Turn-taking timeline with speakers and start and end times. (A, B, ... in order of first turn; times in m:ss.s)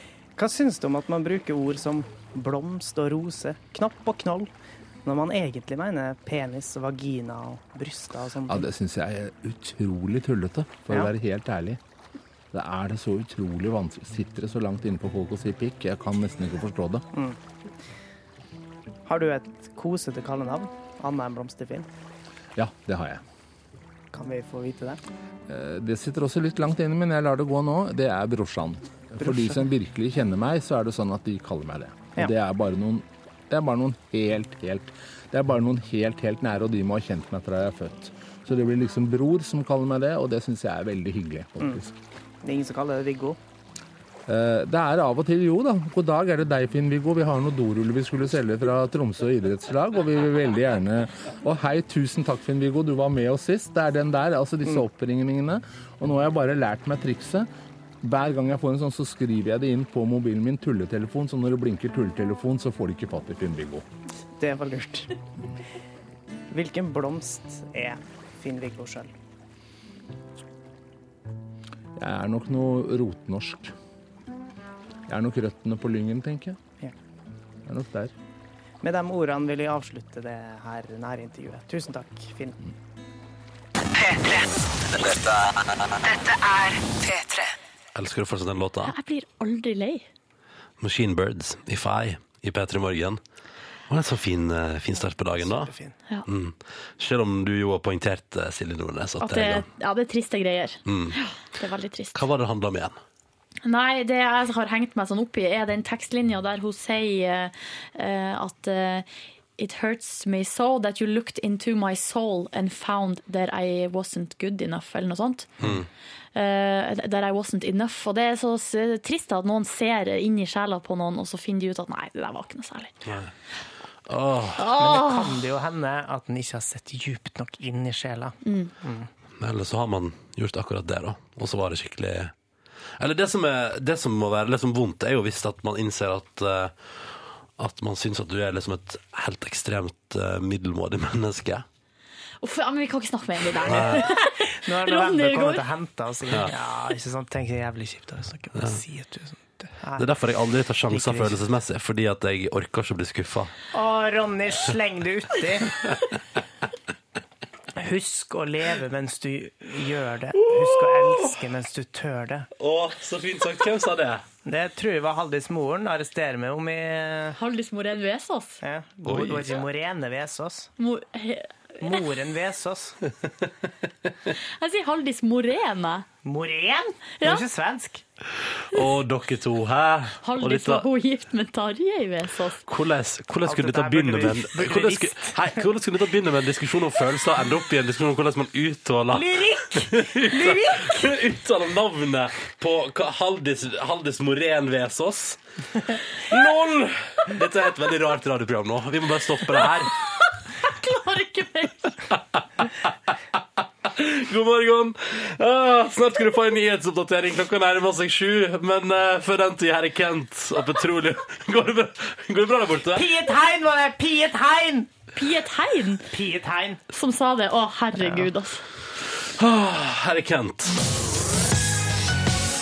0:00.4-0:04.5 A
0:05.0-0:08.6 A
0:08.5-0:11.8 B
0:12.5-0:17.0 B
0:19.1-0:21.9 A
0:22.6-0:23.2 B
0:24.1-0:25.0 A
0:25.5-0:41.9 B
0:29.2-0:29.5 A
0:42.4-0:43.4 A
0:44.3-0:57.5 B
0:58.0-1:03.8 B
1:04.4-1:05.1 A
1:06.5-1:09.1 A
1:12.0-1:13.7 B
1:15.1-1:16.6 B
1:17.6-1:18.1 B
1:18.8-1:22.6 A
1:23.9-1:25.2 C
1:26.0-1:27.5 C
1:27.9-1:28.9 D
1:28.8-1:30.0 E
1:30.8-1:33.2 D
1:33.9-1:35.7 D
1:35.4-1:35.9 A
1:36.3-1:39.6 D
1:39.2-1:42.2 E
1:40.9-1:41.2 D
1:42.1-1:43.0 D
1:43.6-1:49.0 E
1:49.6-1:55.5 E
1:55.6-1:55.8 D
1:56.3-2:03.0 E
2:04.1-2:04.7 D
2:04.6-2:05.3 E
2:04.7-2:09.1 A
2:08.4-2:08.7 E
2:09.4-2:12.3 D
2:13.0-2:16.7 D
2:17.6-2:21.6 D
2:22.4-2:25.6 E
2:23.7-2:24.0 D
2:23.7-2:30.0 A
2:30.0-2:33.5 D
2:30.9-2:31.4 A
2:33.7-2:35.7 A
2:37.8-2:42.5 A
2:40.4-2:41.3 D
2:42.6-2:44.2 D
2:44.4-2:47.4 A
2:47.4-2:48.6 E
2:48.6-2:50.7 A
2:49.0-2:49.6 D
2:50.8-2:51.5 E
2:51.8-2:53.0 A
2:54.6-2:56.0 E
2:56.2-2:58.0 A
2:58.7-3:00.8 D
3:00.2-3:02.6 E
3:02.6-3:15.4 D
3:03.4-3:05.4 A
3:09.1-3:11.0 A
3:16.3-3:19.9 D
3:20.6-3:22.0 E
3:23.9-3:33.1 D
3:32.9-3:34.9 A
3:35.1-3:36.1 E
3:36.1-3:36.8 A
3:36.9-3:38.6 E
3:39.4-3:40.8 D